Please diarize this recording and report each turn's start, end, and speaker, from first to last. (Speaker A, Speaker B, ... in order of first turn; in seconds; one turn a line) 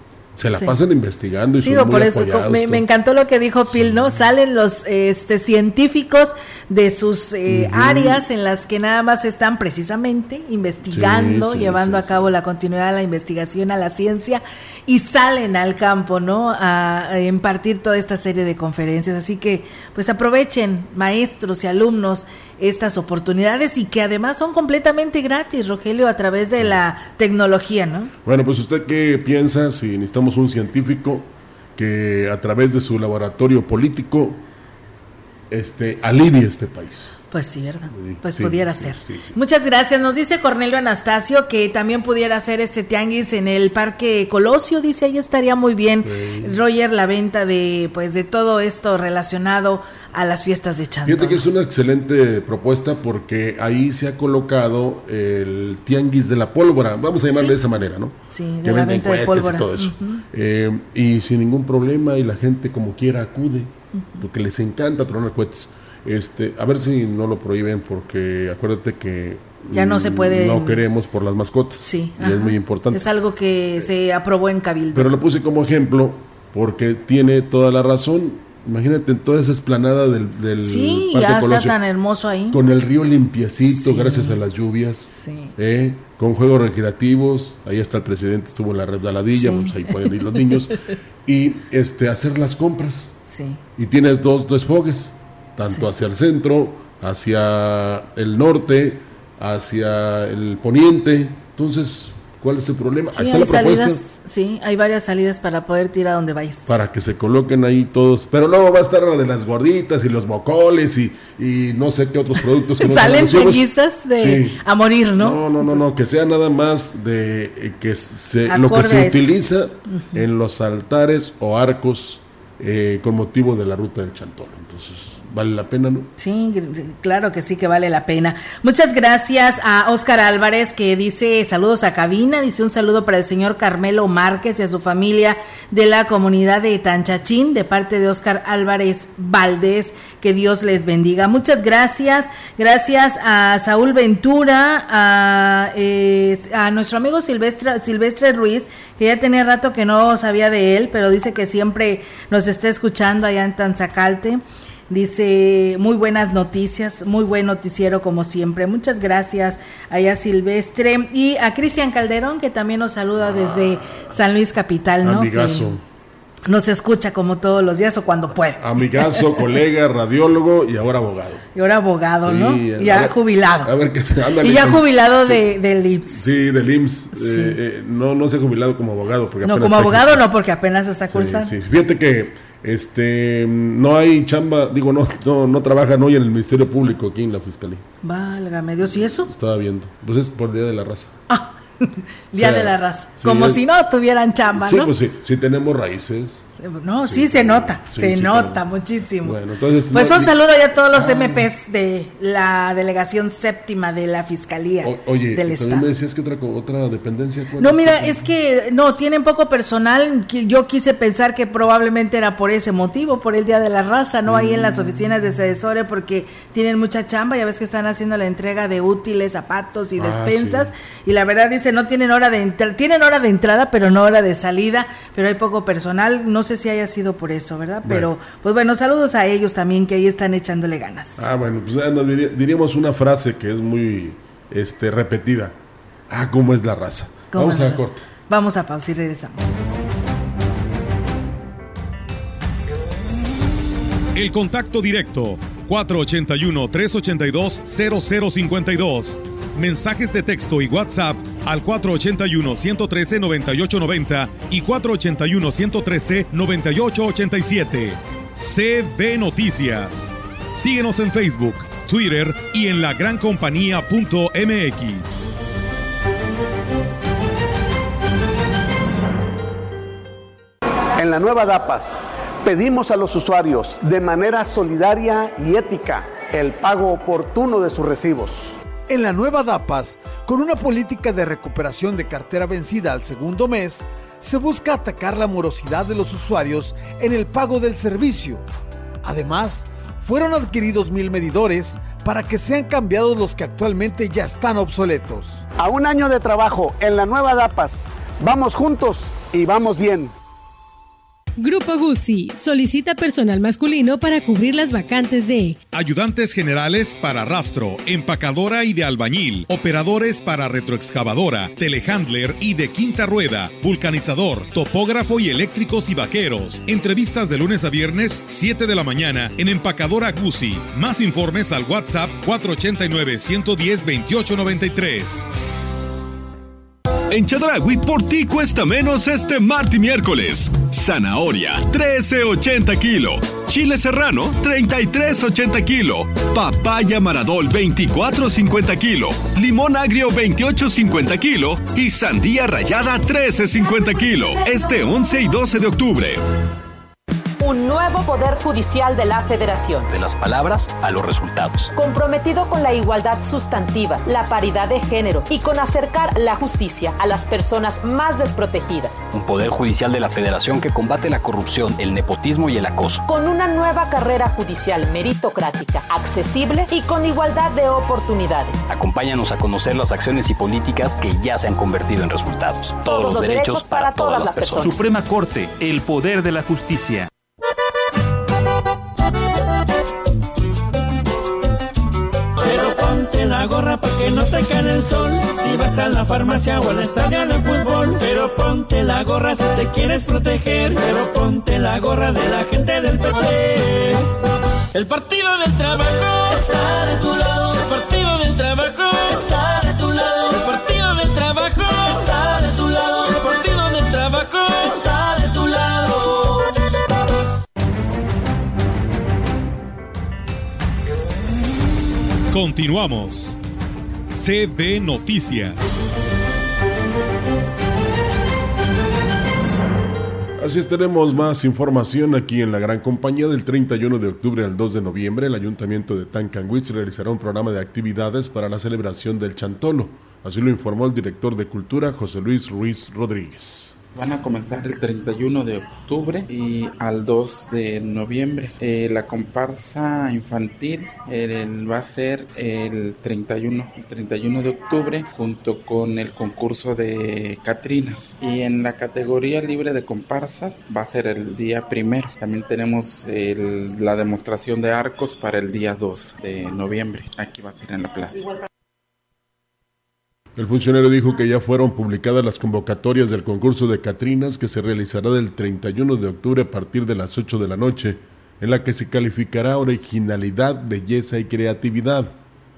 Speaker A: 0.3-2.8
Speaker B: 0.5-0.8
Speaker B: 1.6-28.1
Speaker A: 3.7-4.2
Speaker A: 7.5-8.2
Speaker A: 10.9-12.3
Speaker A: 28.2-34.4
Speaker A: 35.5-37.2
Speaker B: 37.3-51.4
Speaker A: 37.9-39.4
Speaker A: 46.0-46.6
Speaker A: 51.0-73.0
Speaker B: 57.3-57.5
Speaker B: 58.3-60.2
Speaker B: 69.7-70.8
Speaker B: 71.8-75.1
Speaker A: 74.9-81.8
Speaker B: 80.6-82.6
Speaker A: 82.5-93.2
Speaker B: 83.7-84.4
Speaker B: 85.1-85.5
Speaker B: 89.3-90.1
Speaker B: 93.3-93.6
Speaker A: 93.8-104.0
Speaker B: 103.1-106.7
Speaker A: 106.7-114.6
Speaker B: 112.8-115.8
Speaker A: 115.2-126.1
Speaker B: 118.5-119.3
Speaker B: 119.9-120.2
Speaker B: 126.2-165.7
Speaker A: 163.2-164.1
Speaker A: 165.0-165.8
Speaker B: 166.4-169.2
Speaker A: 168.6-171.4
Speaker B: 171.5-173.7
Speaker A: 172.2-175.4
Speaker B: 174.4-176.2
Speaker A: 176.1-180.2
Speaker B: 177.1-177.6
Speaker B: 179.4-181.5
Speaker A: 181.1-187.8
Speaker B: 188.0-189.3
Speaker A: 188.8-191.2
Speaker B: 191.3-194.9
Speaker A: 192.3-193.6
Speaker A: 194.5-196.5
Speaker B: 196.6-199.4
Speaker A: 197.0-198.6
Speaker A: 199.2-200.4
Speaker B: 199.9-205.8
Speaker A: 200.9-201.5
Speaker A: 204.8-208.2
Speaker B: 207.6-231.2
Speaker A: 214.2-215.0
Speaker A: 220.0-220.7
Speaker A: 227.8-228.1
Speaker A: 231.2-235.6
Speaker A: 236.1-238.1
Speaker B: 237.3-239.6
Speaker C: 244.1-265.3
Speaker D: 270.9-278.6
Speaker E: 278.9-288.4
Speaker E: 289.0-295.4
Speaker D: 295.5-300.1
Speaker F: 301.4-305.6
Speaker C: 305.7-325.3
Speaker G: 327.1-346.2
Speaker H: 347.4-349.9
Speaker I: 349.9-351.7
Speaker H: 351.7-359.1
Speaker I: 359.1-363.0
Speaker H: 363.1-368.6
Speaker I: 368.7-374.8
Speaker H: 372.8-374.7
Speaker J: 374.6-377.1
Speaker K: 382.4-394.0
Speaker K: 394.7-406.5
Speaker C: 412.3-413.4
Speaker C: 414.1-415.8
Speaker A: 420.4-433.8
Speaker L: 433.9-458.3
Speaker A: 460.4-472.1